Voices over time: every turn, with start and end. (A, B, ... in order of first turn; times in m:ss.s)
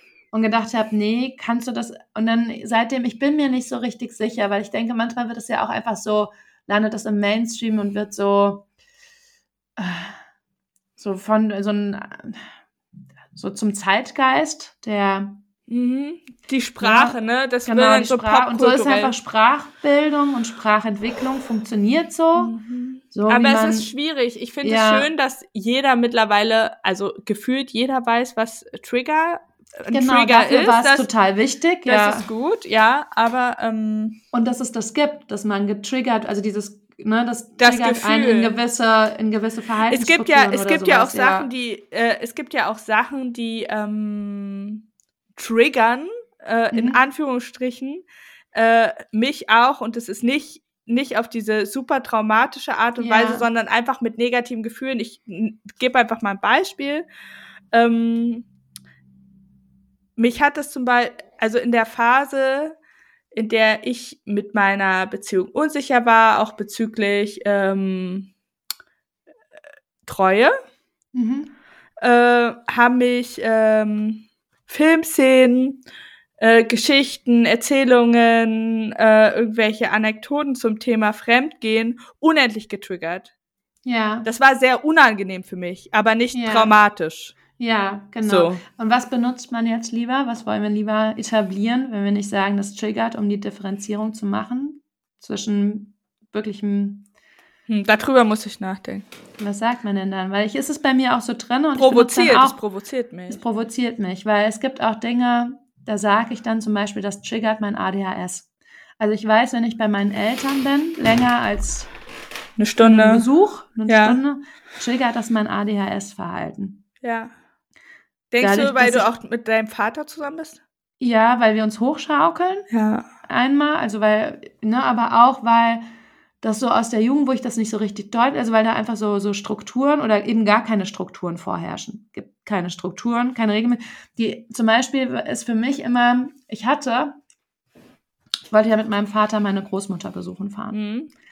0:00.3-0:08.7 A
0:09.8-0:10.2 A
0:11.0-0:12.4 A
0:13.3-0:15.4 A
0:15.7-0:19.1 B
0:16.8-0:22.5 A
0:22.4-0:31.1 B
0:23.1-0:23.9 A
0:24.6-0:25.1 A
0:29.9-0:32.3 A
0:31.9-0:34.2 B
0:34.3-0:41.5 A
0:37.6-0:38.6 B
0:39.9-0:44.8 B
0:45.4-0:57.1 B
0:46.7-0:47.0 A
0:53.0-0:53.5 A
0:57.7-0:58.5 B
1:00.2-1:02.8 B
1:03.3-1:08.3 B
1:10.1-1:10.5 B
1:11.1-1:11.5 A
1:12.0-1:15.8 B
1:16.4-1:23.3 B
1:23.8-1:24.3 A
1:24.2-1:27.4 B
1:26.3-1:26.7 A
1:27.6-1:37.1 A
1:28.2-1:28.6 B
1:37.7-1:39.0 B
1:39.4-1:42.6 A
1:41.8-1:43.4 B
1:43.3-1:48.5 A
1:49.0-1:51.9 A
1:52.6-1:53.3 B
1:52.8-1:56.8 A
1:53.9-1:54.2 B
1:57.0-1:57.3 B
1:58.3-2:00.6 B
1:58.4-1:59.1 A
2:01.0-2:02.7 A
2:02.7-2:03.1 B
2:03.3-2:05.8 A
2:06.4-2:17.2 A
2:18.5-2:20.8 A
2:20.7-2:21.1 B